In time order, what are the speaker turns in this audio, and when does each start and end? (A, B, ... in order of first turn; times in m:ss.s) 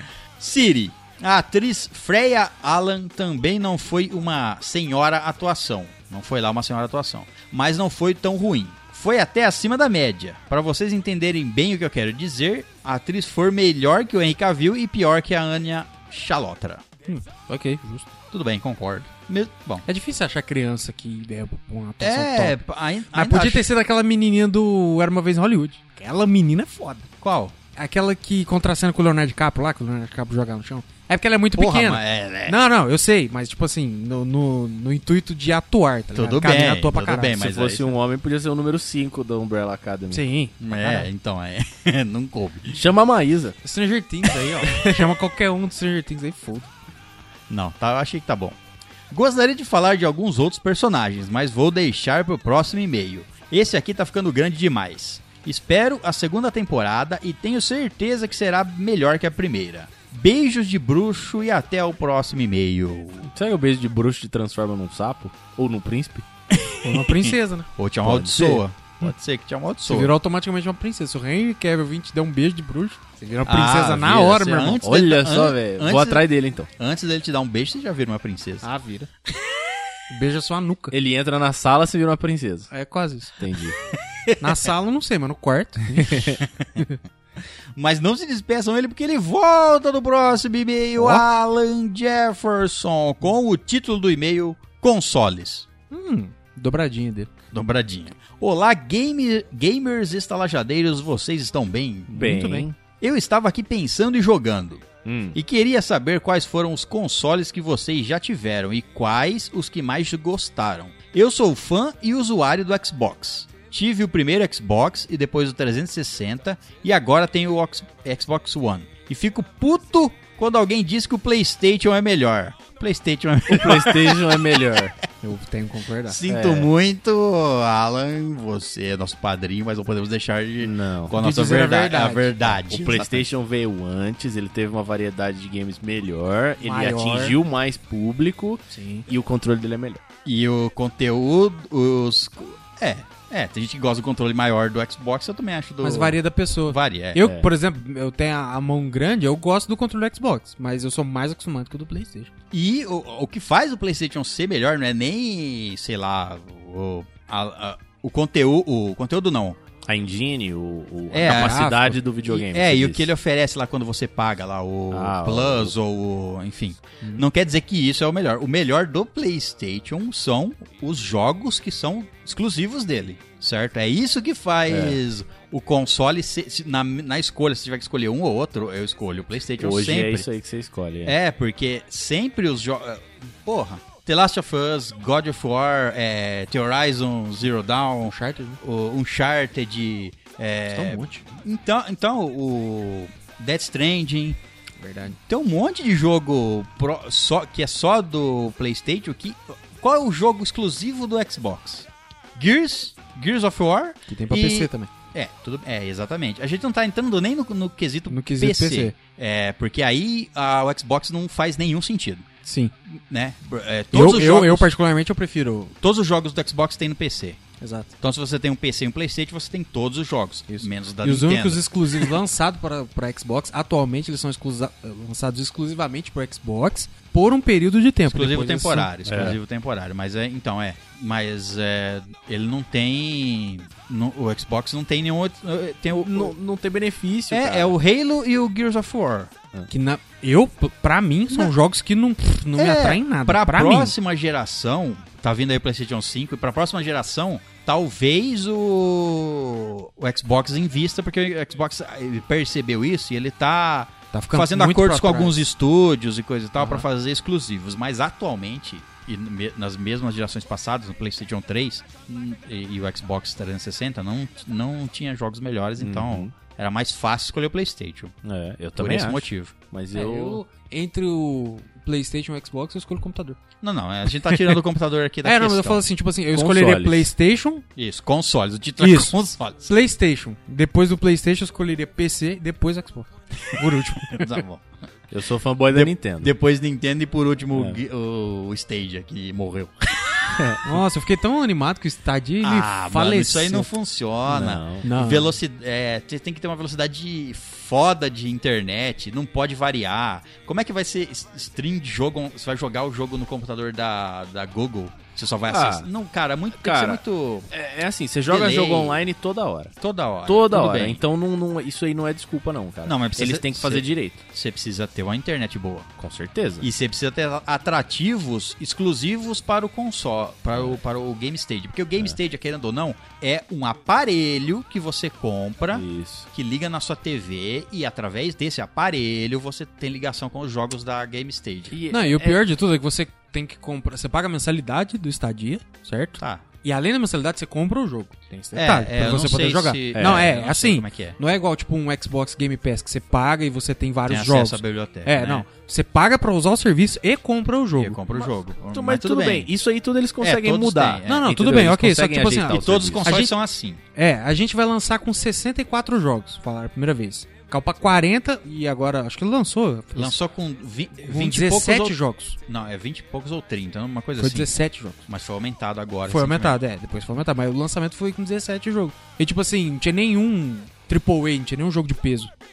0:00.4-0:16.8 A
0:17.1-0:18.1 B
0:18.3-0:19.8 A
0:19.9-0:22.6 B
0:22.0-0:23.7 A
0:23.1-0:27.1 B
0:27.2-0:27.6 A
0:27.8-0:37.4 B
0:31.6-0:32.6 A
0:36.1-0:38.0 A
0:37.3-0:40.2 C
0:40.1-0:41.1 B
0:40.6-0:42.8 A
0:42.7-0:43.6 C
0:43.6-0:46.7 B
0:44.7-0:45.1 C
0:47.5-0:48.6 A
0:49.1-1:03.3 A
1:03.3-1:06.2 C
1:06.5-1:10.1 A
1:06.8-1:07.7 B
1:08.0-1:08.6 C
1:09.9-1:14.8 B
1:13.4-1:18.7 A
1:14.8-1:16.7 C
1:18.6-1:19.1 B
1:20.1-1:20.9 B
1:20.9-1:22.7 C
1:22.7-1:23.4 B
1:23.4-1:23.8 C
1:24.3-1:24.6 A
1:24.4-1:27.0 B
1:25.9-1:26.4 C
1:27.8-1:35.7 A
1:35.9-1:37.3 B
1:37.5-1:42.2 A
1:42.1-1:42.7 B
1:42.1-1:42.8 C
1:43.0-2:04.8 A
1:45.0-1:45.4 C
2:03.5-2:05.0 C
2:05.2-2:06.2 B
2:06.1-2:13.3 A
2:06.3-2:06.7 C
2:10.6-2:11.2 C
2:11.2-2:12.4 B
2:12.6-2:20.0 C
2:16.6-2:17.4 B
2:18.7-2:19.1 B
2:20.2-2:27.2 A
2:25.8-2:32.3 B
2:32.5-2:39.6 A
2:39.9-2:43.1 C
2:41.1-2:41.7 A
2:41.2-2:42.0 B
2:42.3-3:00.3 A
2:44.9-2:45.7 C
2:54.7-2:55.0 C
2:59.6-3:01.2 C
3:01.1-3:14.4 A
3:08.0-3:08.6 B
3:10.7-3:11.2 B
3:14.8-3:15.2 B
3:15.1-3:32.3 A
3:24.1-3:24.9 B
3:28.1-3:28.9 B
3:32.4-3:32.7 B
3:32.9-3:34.7 A
3:33.9-3:35.7 B
3:35.8-3:37.4 A
3:37.6-3:37.9 B
3:38.0-3:42.2 A
3:40.5-3:48.9 B
3:48.1-3:56.4 A
3:49.1-3:49.4 C
3:55.9-3:57.7 C
3:57.3-3:59.3 A
3:59.7-4:04.0 B
4:02.6-4:28.1 A
4:14.1-4:15.4 B
4:16.6-4:16.8 B
4:25.8-4:26.3 C
4:28.2-4:30.4 C
4:28.8-4:29.5 A
4:29.9-4:33.4 B
4:33.6-4:35.8 A
4:34.2-4:34.6 B
4:35.2-4:37.6 B
4:36.3-4:37.1 C
4:37.8-4:39.6 A
4:38.8-4:44.4 B
4:43.6-4:44.6 A
4:45.1-4:46.3 C
4:45.7-4:50.5 A
4:47.5-4:47.8 C
4:50.3-4:50.6 C
4:50.6-4:53.7 B
4:52.4-5:07.5 A
4:54.3-4:54.9 C
4:54.8-4:55.3 B
5:05.5-5:05.9 C
5:06.6-5:14.2 C
5:08.3-5:09.0 A
5:09.8-5:11.0 A
5:12.8-5:15.9 A
5:16.0-5:16.7 C
5:16.6-5:31.8 A
5:25.7-5:26.3 C
5:31.7-5:32.4 C
5:31.9-5:48.0 B
5:36.2-5:36.4 A
5:38.5-5:41.2 A
5:39.9-5:40.3 C
5:44.1-5:45.5 A
5:47.8-5:49.5 A
5:48.2-5:53.1 C
5:50.2-5:51.3 A
5:51.0-5:53.4 B
5:52.5-5:53.8 A
5:54.0-6:00.2 B
6:00.0-6:04.5 A
6:01.0-6:02.4 B
6:04.2-6:05.1 B
6:05.1-6:06.6 A
6:06.1-6:12.3 B